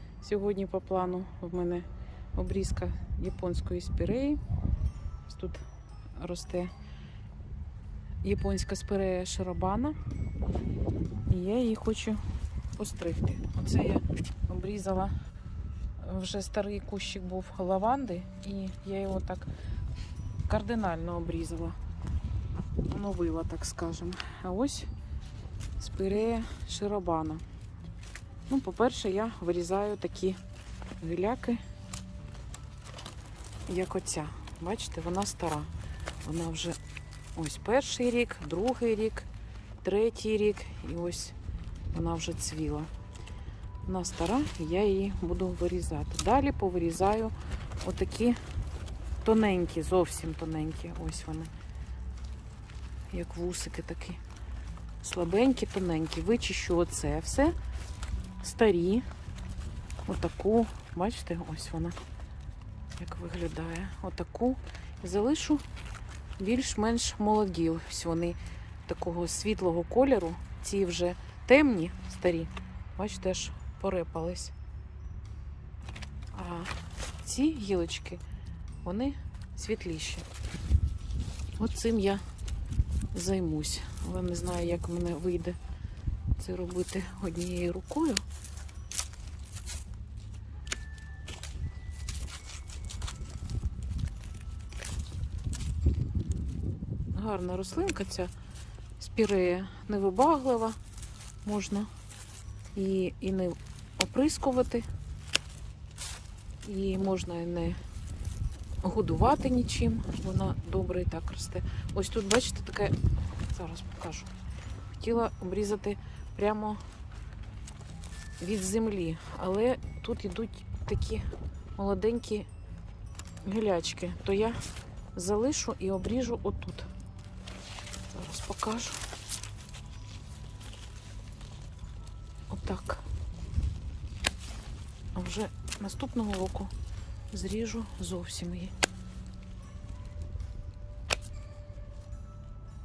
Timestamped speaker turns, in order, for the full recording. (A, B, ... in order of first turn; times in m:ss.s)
0:00.2-0:04.4 A
0:05.3-0:05.6 A
0:06.2-0:06.7 A
0:08.2-0:10.0 A
0:11.3-0:12.2 A
0:12.8-0:15.1 A
0:16.0-0:19.5 A
0:20.4-0:21.8 A
0:22.9-0:24.9 A
0:25.8-0:27.4 A
0:28.5-0:30.4 A
0:31.0-0:31.6 A
0:33.7-0:35.7 A
0:36.2-0:36.8 A
0:37.4-0:39.3 A
0:39.8-0:41.4 A
0:41.9-0:42.9 A
0:43.8-0:48.4 A
0:49.2-0:51.5 A
0:53.1-0:54.2 A
0:55.0-0:57.6 A
0:58.4-0:59.1 A
1:00.0-1:02.0 A
1:03.0-1:05.6 A
1:06.4-1:14.5 A
1:16.3-1:18.2 A
1:18.8-1:20.3 A
1:21.6-1:22.2 A
1:23.1-1:25.6 A
1:26.4-1:28.2 A
1:37.1-1:38.3 A
1:39.0-1:40.8 A
1:41.4-1:41.9 A
1:42.7-1:44.9 A
1:46.6-1:47.8 A
1:48.8-1:53.0 A
1:53.5-1:54.3 A
1:55.0-1:56.8 A
1:58.4-2:02.5 A
2:03.4-2:04.6 A
2:05.1-2:06.9 A
2:08.1-2:09.0 A
2:12.5-2:13.0 A
2:15.1-2:16.7 A
2:17.3-2:18.7 A